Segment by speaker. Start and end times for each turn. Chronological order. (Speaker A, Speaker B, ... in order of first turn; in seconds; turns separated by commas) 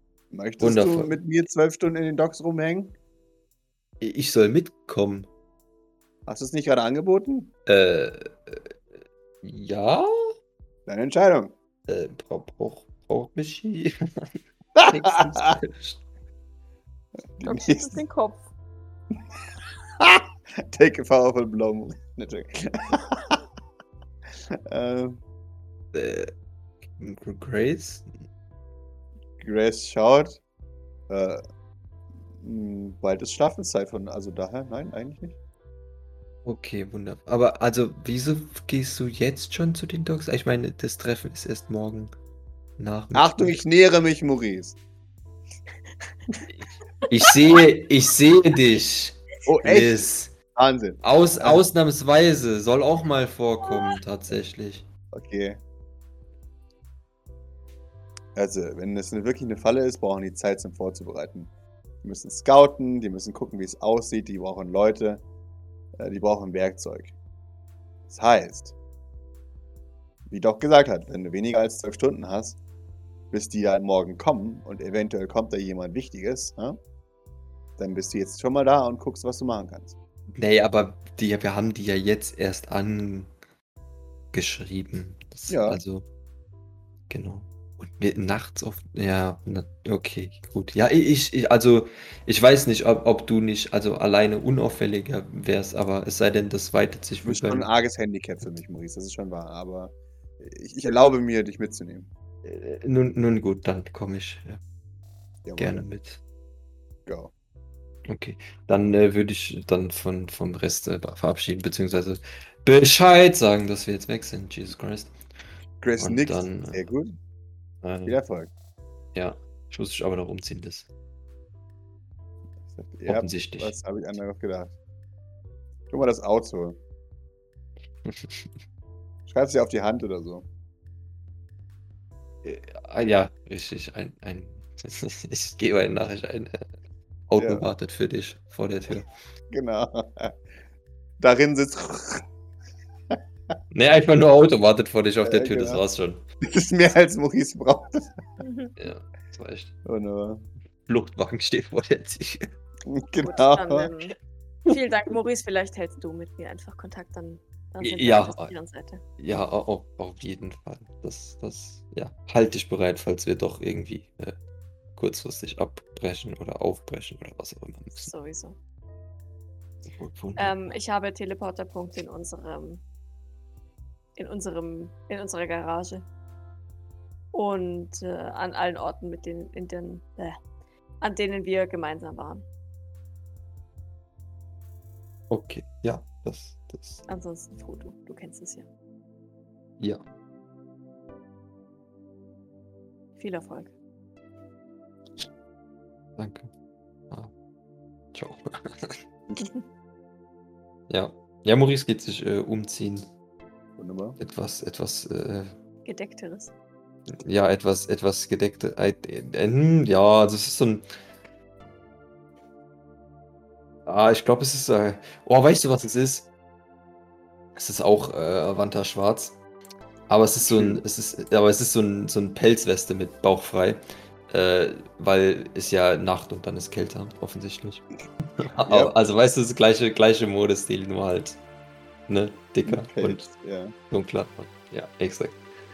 Speaker A: 0.3-2.9, Speaker B: 0.6-1.2, Speaker B: 4.0-5.3, Speaker A: 6.3-7.5, Speaker B: 7.7-8.7, Speaker B: 9.4-10.3, Speaker A: 10.9-11.6, Speaker B: 11.9-16.0, Speaker A: 14.8-15.5, Speaker A: 17.4-18.0, Speaker C: 17.4-18.5, Speaker A: 20.0-23.4, Speaker A: 24.5-25.2, Speaker B: 25.9-26.3, Speaker B: 27.0-28.1, Speaker A: 29.4-30.4, Speaker A: 31.1-31.4, Speaker A: 32.4-35.4, Speaker B: 36.5-42.1, Speaker B: 42.8-43.6, Speaker A: 43.1-44.8, Speaker C: 47.0-47.3, Speaker B: 47.1-50.4, Speaker A: 49.5-51.6, Speaker B: 51.0-54.9, Speaker A: 55.1-55.6, Speaker A: 58.4-61.5, Speaker A: 62.0-65.2, Speaker A: 66.0-67.1, Speaker A: 68.1-68.8, Speaker A: 70.3-72.6, Speaker A: 73.3-76.8, Speaker A: 77.8-80.0, Speaker B: 80.3-83.3, Speaker B: 84.3-86.0, Speaker A: 85.5-85.8, Speaker B: 87.1-97.7, Speaker A: 97.2-102.1, Speaker B: 102.4-104.6, Speaker A: 105.5-105.9, Speaker B: 105.6-106.2, Speaker A: 107.1-107.3, Speaker B: 108.1-115.2, Speaker A: 115.8-117.2, Speaker B: 116.0-116.9, Speaker B: 117.8-118.2, Speaker A: 118.1-118.5, Speaker B: 119.1-120.9, Speaker A: 122.7-124.8, Speaker B: 123.1-123.8, Speaker A: 125.9-126.8, Speaker B: 128.1-128.5, Speaker A: 129.3-130.5, Speaker B: 132.4-136.7, Speaker B: 137.3-139.1, Speaker A: 137.4-137.7, Speaker A: 139.5-140.4, Speaker A: 141.2-142.3, Speaker B: 143.7-146.2, Speaker A: 145.2-145.8, Speaker A: 146.4-148.2, Speaker C: 148.4-148.8, Speaker B: 148.8-149.7, Speaker A: 149.8-150.4, Speaker B: 150.9-152.5, Speaker A: 152.9-153.9, Speaker C: 153.2-154.2, Speaker C: 154.7-159.0, Speaker B: 157.8-158.6, Speaker B: 159.2-164.4, Speaker B: 164.9-168.1, Speaker C: 167.9-168.6, Speaker B: 169.9-170.8, Speaker C: 170.4-172.8, Speaker C: 174.2-176.1, Speaker C: 177.3-180.4, Speaker C: 181.0-182.4, Speaker B: 185.3-187.1, Speaker C: 187.1-188.7, Speaker C: 193.2-193.7, Speaker B: 196.2-196.5, Speaker B: 198.1-199.0, Speaker C: 199.4-199.7, Speaker B: 200.9-203.1, Speaker A: 203.8-204.2, Speaker B: 204.2-205.5, Speaker C: 205.8-206.5, Speaker B: 207.1-210.9, Speaker B: 213.9-216.3, Speaker B: 217.6-219.4, Speaker B: 220.1-227.8, Speaker A: 220.4-220.8, Speaker B: 228.4-231.4, Speaker A: 228.7-228.9, Speaker B: 232.1-233.2, Speaker A: 232.7-233.7, Speaker B: 233.9-235.5